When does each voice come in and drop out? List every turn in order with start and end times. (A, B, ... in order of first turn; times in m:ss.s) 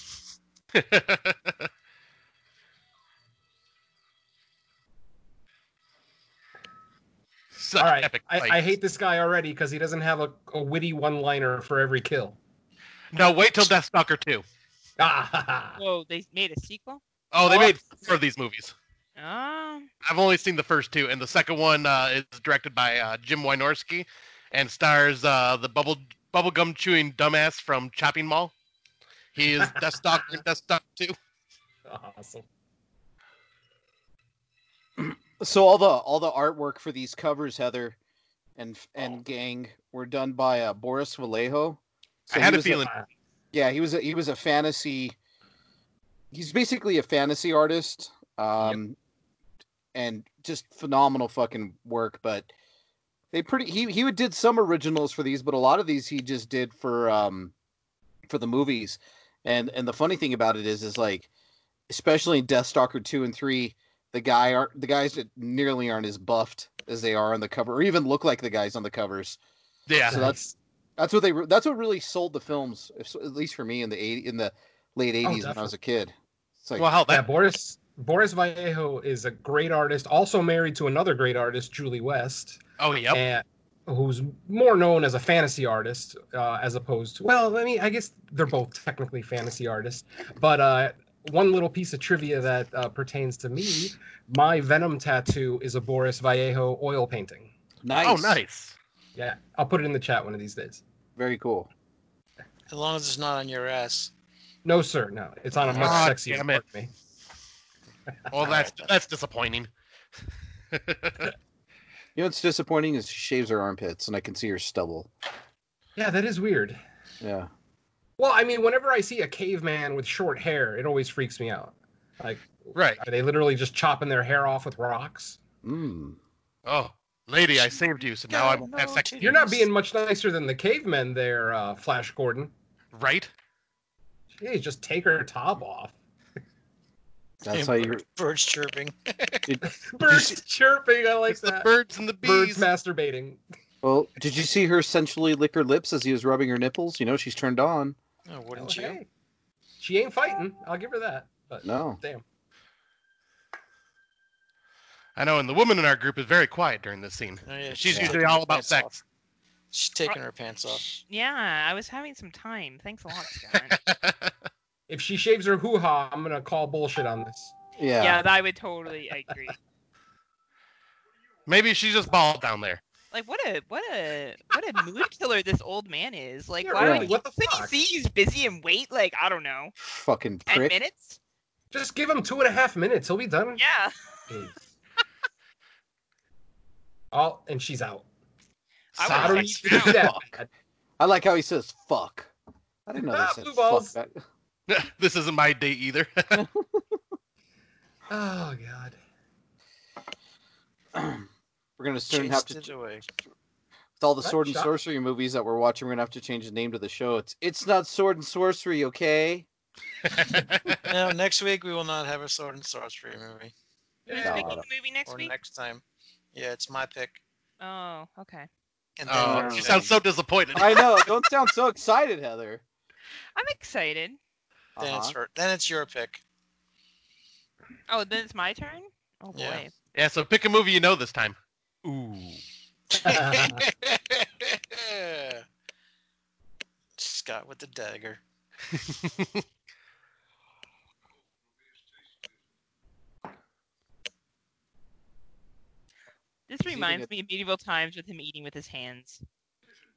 0:00.7-0:01.6 A
0:07.6-0:08.6 A
0:07.8-0:12.4 B
0:13.1-0:14.4 A
0:15.0-0:15.8 B
0:15.8-0:17.0 C
0:17.3-0:18.7 A
0:17.5-0:17.7 B
0:19.2-0:19.9 C
0:20.0-0:28.5 A
0:29.3-0:31.1 A
0:31.8-0:32.4 B
0:35.0-0:38.0 D
0:38.6-0:42.9 D
0:42.3-0:42.9 A
0:43.5-0:45.2 D
0:46.3-0:49.0 D
0:49.9-0:52.5 D
0:53.3-0:57.5 D
0:58.3-1:01.3 D
1:01.9-1:09.4 D
1:09.9-1:10.3 A
1:10.0-1:10.5 B
1:10.0-1:10.4 D
1:11.0-1:16.9 D
1:15.2-1:15.7 B
1:16.8-1:17.3 A
1:17.1-1:22.6 B
1:22.8-1:23.2 A
1:23.1-1:37.5 B
1:37.8-1:38.4 D
1:38.0-1:38.8 A
1:39.2-1:40.8 B
1:41.2-1:41.7 D
1:42.7-1:44.1 E
1:44.6-1:46.9 B
1:45.7-1:46.6 A
1:45.7-1:46.1 E
1:48.3-1:49.7 A
1:48.4-1:48.9 E
1:50.7-1:51.3 A
1:52.2-1:55.1 D
1:56.0-1:56.8 B
1:57.2-1:57.5 D
1:58.2-2:05.4 B
2:02.7-2:03.0 A
2:05.6-2:06.2 D
2:06.6-2:09.3 A
2:08.3-2:09.7 E
2:09.2-2:12.5 B
2:12.9-2:13.3 A
2:14.4-2:15.9 B
2:17.4-2:18.0 D
2:17.5-2:19.5 E
2:19.6-2:21.7 B
2:21.3-2:22.7 A
2:22.2-2:23.4 B
2:23.8-2:28.0 D
2:28.2-2:29.0 E
2:28.5-2:29.1 B
2:29.8-2:32.2 B
2:31.6-2:32.0 D
2:35.2-2:38.9 A
2:37.4-2:39.0 E
2:37.9-2:38.2 D
2:39.7-2:40.9 E
2:41.0-2:43.8 C
2:43.7-2:44.3 A
2:44.9-2:47.5 B
2:47.8-2:48.2 D
2:48.0-2:49.6 C
2:51.5-2:52.8 A
2:53.1-2:59.7 C
2:56.6-2:57.7 B
2:56.8-2:57.1 D
2:59.8-3:00.7 D
3:00.5-3:01.2 C
3:01.7-3:03.6 B
3:03.6-3:03.9 C
3:04.3-3:04.6 B
3:07.1-3:08.0 B
3:08.9-3:10.1 C
3:09.0-3:10.1 A
3:09.1-3:10.5 B
3:11.0-3:12.3 D
3:12.9-3:14.1 D
3:13.0-3:14.0 B
3:14.7-3:16.4 A
3:16.3-3:17.0 D
3:18.1-3:19.0 B
3:20.9-3:21.3 D
3:21.8-3:22.6 D
3:22.1-3:23.0 E
3:24.0-3:29.4 D
3:24.2-3:24.7 B
3:30.0-3:30.9 A
3:30.9-3:33.5 E
3:34.1-3:34.5 B
3:34.1-3:35.3 C
3:34.2-3:34.6 D
3:35.0-3:35.8 E
3:36.3-3:37.2 E
3:37.6-3:38.5 C
3:39.0-3:39.9 E
3:39.1-3:40.9 A
3:39.2-3:39.9 D
3:40.5-3:42.6 D
3:43.3-3:44.2 C
3:44.8-3:45.1 D
3:44.8-3:46.2 E
3:47.9-3:49.7 C
3:49.3-3:49.6 E
3:49.9-3:52.4 A
3:52.9-3:55.4 E
3:53.0-3:53.6 B
3:57.0-3:58.2 E
3:58.7-3:59.3 A
4:06.5-4:09.2 C
4:06.6-4:07.1 D